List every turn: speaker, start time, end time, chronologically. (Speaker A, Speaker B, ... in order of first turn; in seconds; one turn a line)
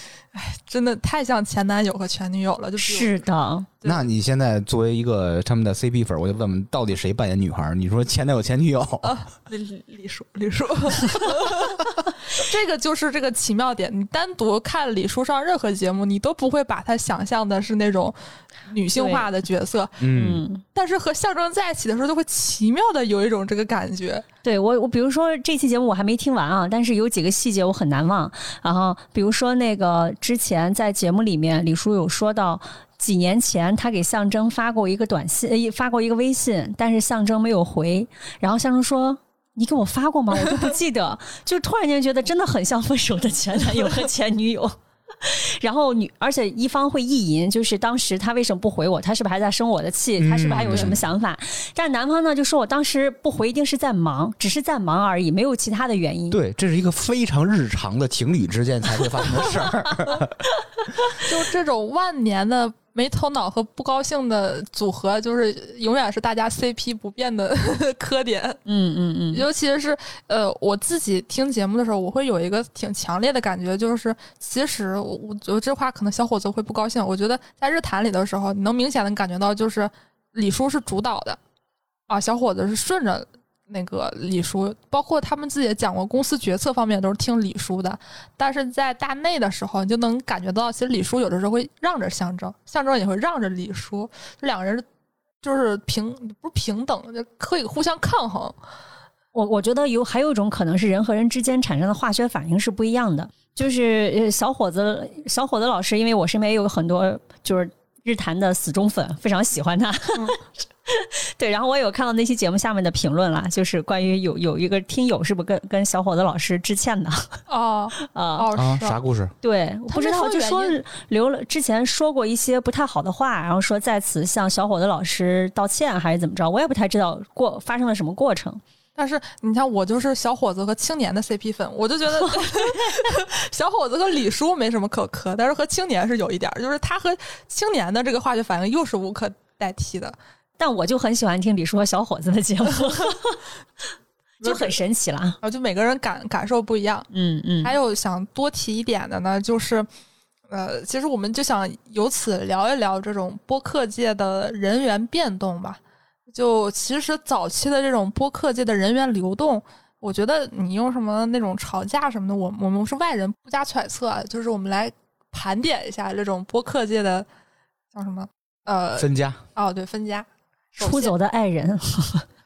Speaker A: 0.3-3.2
Speaker B: 2.8-3.7
Speaker A: 3.8-4.0
Speaker C: 3.8-9.2
Speaker A: 9.0-20.0
Speaker B: 18.9-19.3
Speaker C: 20.0-20.4
Speaker B: 20.1-20.6
Speaker A: 20.7-24.2
Speaker B: 24.4-56.4
Speaker C: 50.2-51.0
Speaker C: 56.3-60.4
Speaker A: 61.2-68.6
Speaker B: 68.7-69.4
Speaker A: 69.3-81.4
Speaker A: 82.1-94.8
Speaker A: 95.4-98.5
Speaker B: 99.3-117.4
Speaker A: 117.5-119.0
Speaker B: 118.0-118.5
Speaker C: 118.5-119.3
Speaker B: 119.4-128.6
Speaker A: 119.9-120.8
Speaker A: 128.9-140.2
Speaker B: 132.2-133.0
Speaker B: 140.6-143.4
Speaker B: 144.4-145.4
Speaker A: 144.4-144.8
Speaker A: 145.4-147.1
Speaker B: 147.1-147.7
Speaker A: 147.6-149.9
Speaker A: 150.5-155.8
Speaker A: 156.3-167.3
Speaker A: 167.9-171.1
Speaker C: 169.0-169.4
Speaker B: 170.8-172.2